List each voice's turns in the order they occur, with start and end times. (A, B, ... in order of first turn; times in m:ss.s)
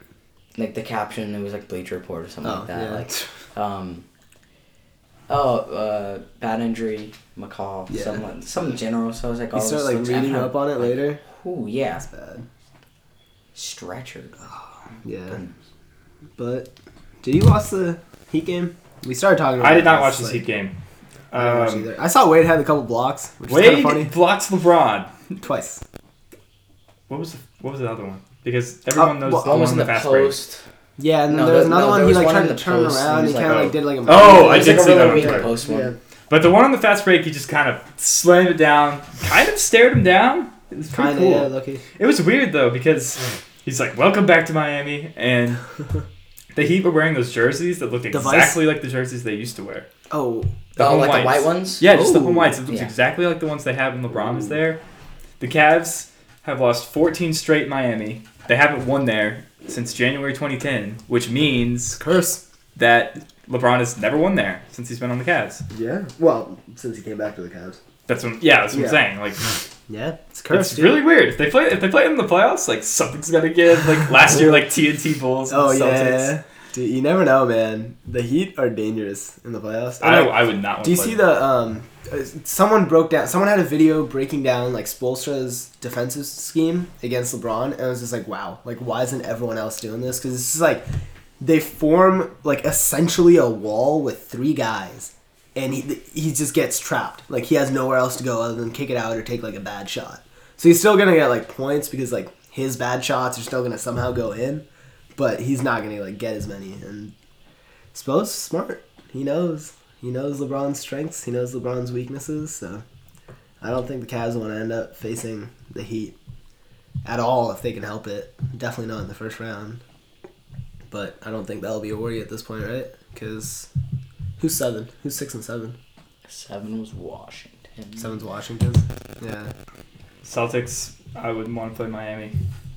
0:00.6-0:04.0 A
0:02.4-0:03.2 B
0:05.3-0:12.0 A
0:07.9-0:08.2 B
0:09.5-0:11.2 B
0:12.0-0:12.4 B
0:13.5-0:14.4 A
0:15.0-0:15.4 B
0:15.3-0:15.5 A
0:16.4-0:16.7 B
0:17.2-0:20.4 B
0:19.6-0:20.8 C
0:21.3-0:21.9 C
0:21.3-0:24.1 B
0:23.5-0:25.1 C
0:25.4-0:25.8 B
0:27.1-0:30.4 C
0:29.0-0:29.6 B
0:29.4-0:30.6 A
0:31.0-0:36.0 B
0:31.3-0:35.9 A
0:33.5-0:35.6 C
0:36.3-0:45.6 C
0:40.9-0:41.8 B
0:46.5-0:49.9 C
0:48.1-0:48.6 B
0:50.1-0:50.6 B
0:50.8-0:54.8 C
0:50.8-0:51.9 A
0:51.8-0:52.6 B
0:55.4-1:02.0 C
1:02.0-1:02.4 B
1:02.8-1:05.6 C
1:05.7-1:07.8 B
1:08.1-1:09.6 C
1:08.7-1:09.0 B
1:09.9-1:11.0 B
1:10.5-1:16.3 C
1:15.5-1:30.8 B
1:20.0-1:21.2 C
1:31.4-1:44.6 B
1:45.2-1:47.1 B
1:47.9-1:52.8 B
1:53.6-1:56.1 B
1:57.0-1:59.8 B
2:00.9-2:03.7 B
2:04.4-2:05.8 B
2:06.3-2:08.2 A
2:08.0-2:09.5 B
2:10.2-2:12.3 C